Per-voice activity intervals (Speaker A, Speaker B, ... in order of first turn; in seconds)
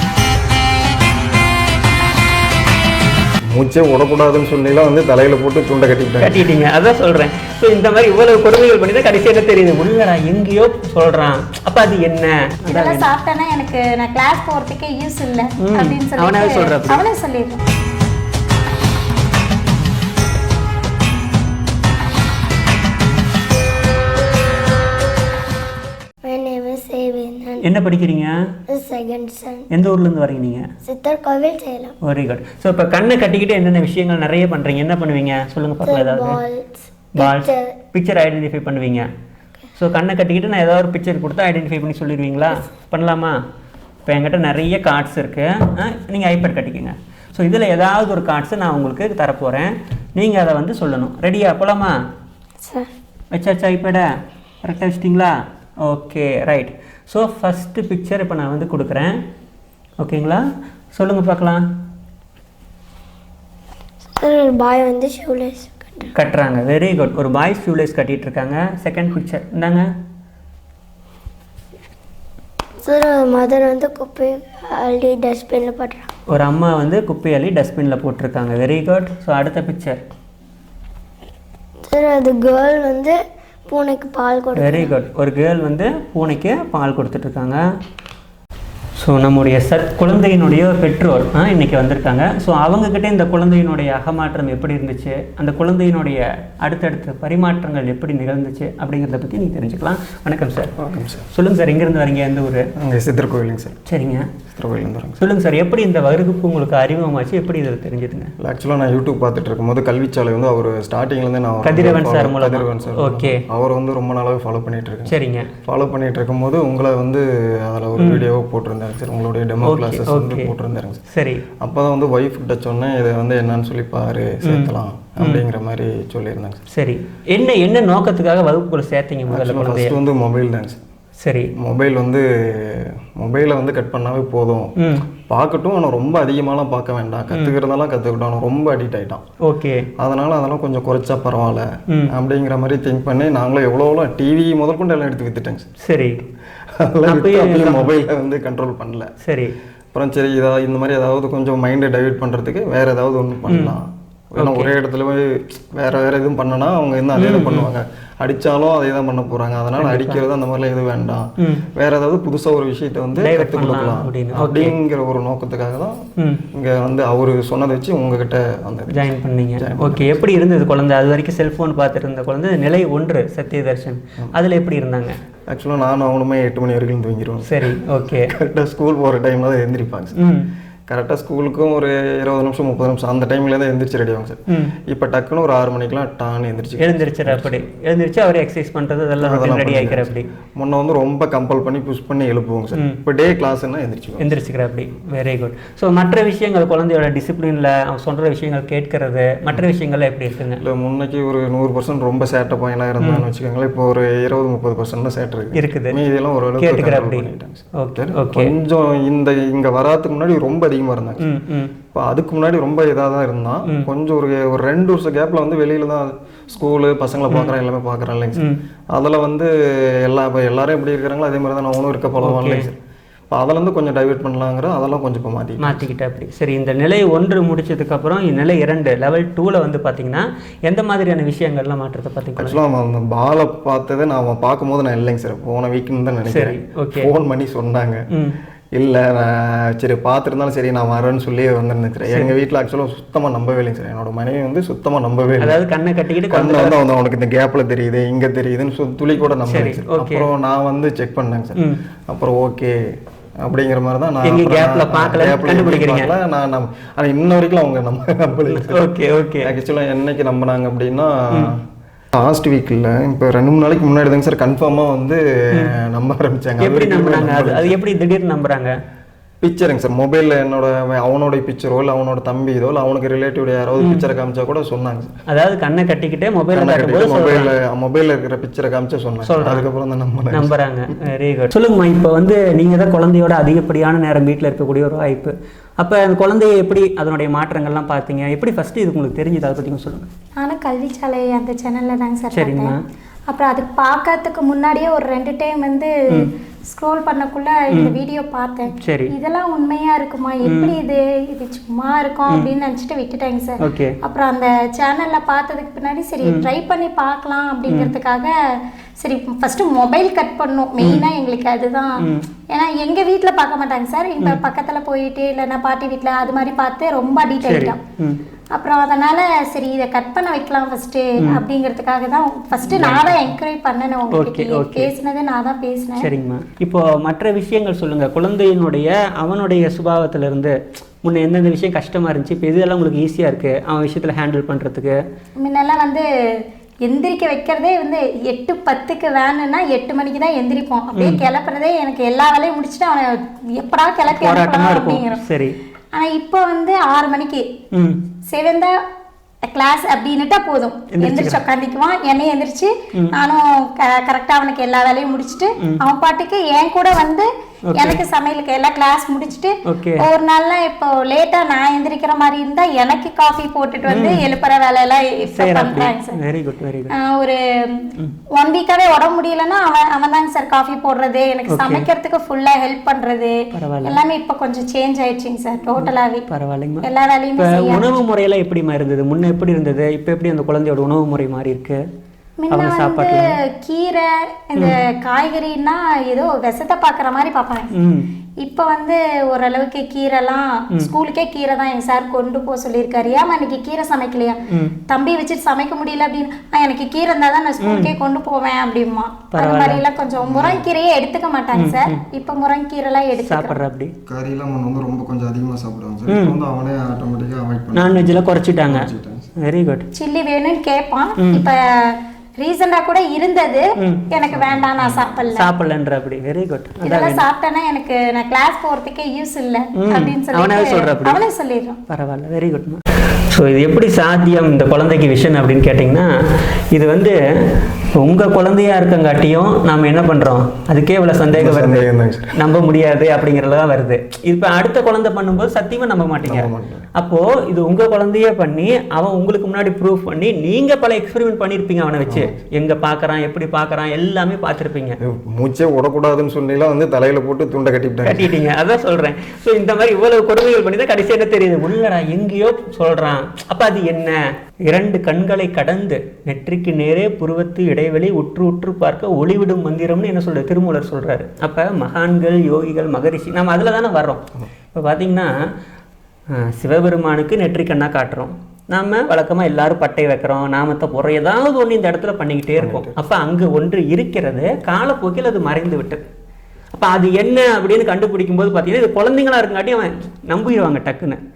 Speaker A: 3.5-6.4, 100.8-101.3, 102.8-103.8, 104.5-105.2, 108.4-121.0, 121.6-126.6, 129.3-130.8, 131.6-139.2, 140.0-145.7, 146.8-149.1, 149.9-166.0, 166.5-169.1, 169.6-170.1, 175.5-177.5, 178.3-180.2, 180.9-187.6, 189.2-194.3, 200.6-211.3, 211.9-222.8, 223.3-225.8, 232.4-238.0, 238.8-245.6, 246.3-252.8, 253.4-258.8, 259.4-261.6, 262.1-267.8, 269.4-275.1, 276.5-280.5, 400.2-400.6, 404.1-409.3, 414.3-415.2, 431.3-432.3, 436.2-436.9, 442.1-442.4, 445.0-448.3, 472.6-472.9
Speaker B: 6.2-13.1, 15.6-17.0, 27.6-28.4, 29.7-30.6, 32.0-36.4, 37.1-39.1, 39.8-43.4, 44.0-52.0, 53.3-54.1, 54.6-59.1, 60.0-61.6, 66.1-69.8, 76.3-80.0, 84.5-87.6, 89.0-100.7, 101.3-102.7, 103.9-104.3, 105.2-108.3, 111.6-113.4, 115.1-115.5, 118.0-118.3, 119.6-120.5, 121.1-121.4, 124.4-125.4, 126.7-130.0, 131.2-131.5, 134.8-135.1, 139.4-139.9, 145.8-146.2, 147.1-147.9, 149.2-149.5, 153.5-153.7, 154.4-154.7, 157.2-157.7, 159.8-160.2, 161.4-161.6, 163.2-164.8, 166.2-166.4, 168.9-175.2, 177.5-178.3, 180.2-180.5, 184.5-184.8, 186.8-190.3, 194.2-200.6, 205.5-206.0, 206.6-207.3, 207.8-208.5, 211.2-211.7, 218.3-218.6, 222.2-222.7, 225.6-232.6, 236.3-237.1, 242.1-242.3, 245.4-246.8, 249.4-250.3, 254.2-256.1, 258.5-259.5, 266.6-268.7, 273.8-274.1, 275.3-277.5, 279.2-279.7, 280.3-290.1, 292.3-292.8, 298.8-299.1, 300.4-300.7, 303.6-303.9, 312.0-312.2, 317.4-318.2, 322.6-323.4, 324.1-324.9, 326.0-335.0, 340.9-341.2, 344.1-345.6, 347.7-348.0, 350.9-351.4, 357.7-358.0, 359.6-360.1, 363.9-364.2, 365.3-366.9, 371.5-371.9, 373.5-374.0, 375.8-376.9, 377.4-381.8, 382.5-383.4, 387.7-388.1, 394.5-394.7, 397.6-397.9, 399.3-399.8, 401.5-402.0, 403.2-403.9, 406.1-406.4, 407.7-408.9, 409.4-409.9, 411.2-411.5, 413.8-414.1, 414.9-417.2, 419.8-421.2, 421.9-426.1, 426.7-445.0, 448.0-465.3, 466.3-476.0, 476.7-481.2
Speaker C: 12.7-17.6, 290.4-292.8, 293.3-308.3, 309.0-312.0, 312.5-317.8, 318.5-326.1, 335.4-336.0, 336.8-345.2, 345.9-347.5, 348.3-348.7, 349.5-366.2, 366.9-376.2, 376.8-377.9, 382.4-387.8, 388.4-403.6, 409.9-415.5, 416.8-421.8
Speaker D: 26.2-27.7, 28.7-29.6, 30.8-31.9, 35.8-37.7, 52.6-52.9, 64.2-66.1, 72.8-76.1, 81.8-84.9